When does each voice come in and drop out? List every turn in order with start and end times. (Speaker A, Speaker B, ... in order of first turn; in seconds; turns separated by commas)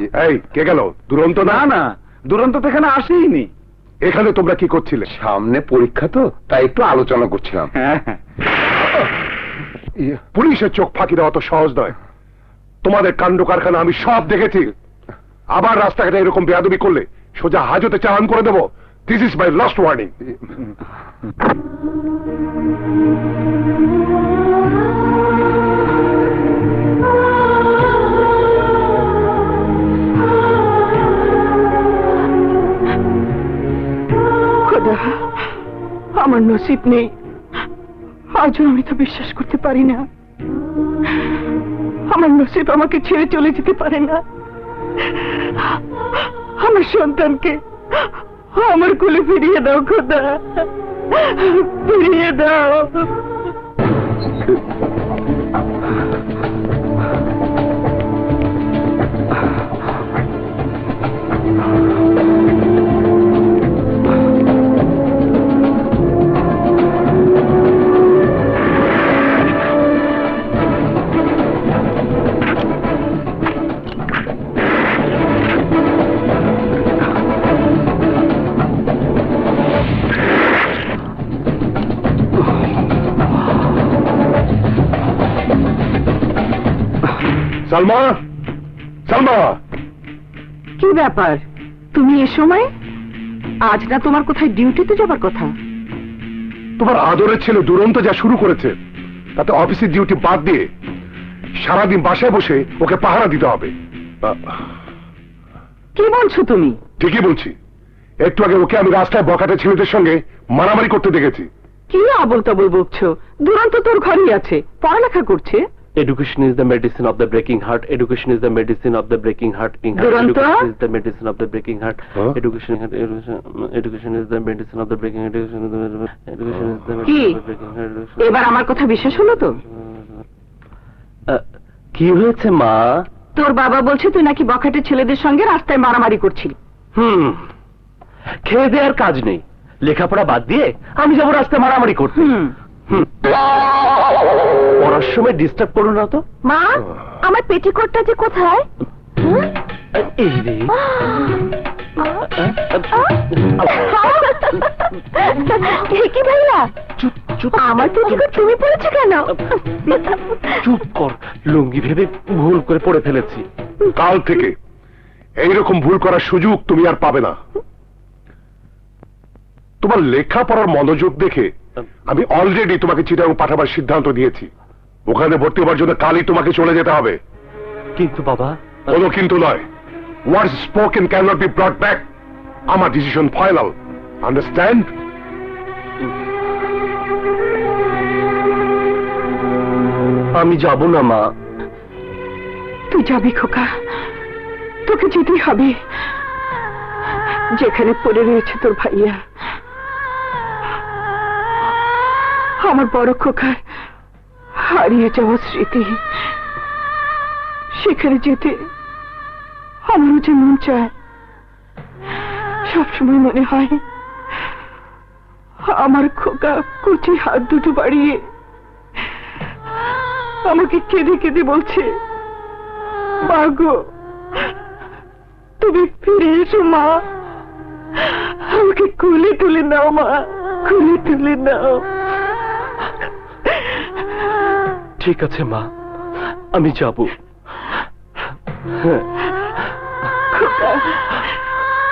Speaker A: 0.1-1.7, Speaker B: 1.4-3.5, Speaker A: 4.0-5.1, Speaker C: 5.1-7.7, Speaker B: 7.8-8.2, Speaker A: 10.3-11.9, Speaker A: 12.8-14.7, Speaker A: 15.5-20.1, Speaker D: 34.6-35.3, Speaker D: 36.1-37.1, Speaker D: 38.3-40.0, Speaker D: 42.1-44.2, Speaker D: 45.1-45.8, Speaker D: 46.6-53.1, Speaker A: 87.7-88.2, Speaker A: 89.1-89.6, Speaker D: 90.8-91.4, Speaker D: 91.9-92.7, Speaker D: 93.6-95.5, Speaker A: 96.8-98.7, Speaker A: 99.4-100.7, Speaker A: 101.6-103.7, Speaker A: 104.2-104.6, Speaker D: 105.9-106.8, Speaker A: 107.0-107.5, Speaker A: 108.2-111.5, Speaker D: 111.9-115.6, Speaker E: 116.0-128.2, Speaker D: 119.9-120.7, Speaker D: 127.0-127.4, Speaker D: 128.2-129.6, Speaker E: 131.9-133.0, Speaker D: 133.3-136.6, Speaker E: 136.9-137.5, Speaker E: 138.4-143.1, Speaker D: 142.2-142.5, Speaker E: 144.8-146.2, Speaker D: 146.4-148.7, Speaker E: 149.9-150.7, Speaker E: 152.3-154.4, Speaker D: 153.7-156.7, Speaker E: 157.0-158.5, Speaker D: 157.5-160.6, Speaker E: 160.5-163.4, Speaker A: 163.9-164.6, Speaker A: 165.4-167.4, Speaker A: 169.8-171.5, Speaker A: 172.1-174.5, Speaker A: 175.1-177.2, Speaker E: 177.9-179.0, Speaker A: 178.9-179.7, Speaker A: 180.2-182.1, Speaker A: 182.7-184.9, Speaker E: 190.3-191.3, Speaker D: 192.9-193.7, Speaker D: 194.8-195.7, Speaker D: 197.5-199.2, Speaker D: 202.6-203.6, Speaker D: 204.6-206.0, Speaker D: 207.7-208.6, Speaker D: 209.8-210.9, Speaker D: 212.7-213.8, Speaker D: 215.7-218.2, Speaker D: 220.4-221.9, Speaker D: 223.2-223.8, Speaker D: 225.6-226.9, Speaker D: 228.0-231.8, Speaker E: 235.0-235.7, Speaker E: 236.5-237.1, Speaker E: 238.7-239.1, Speaker D: 240.3-241.3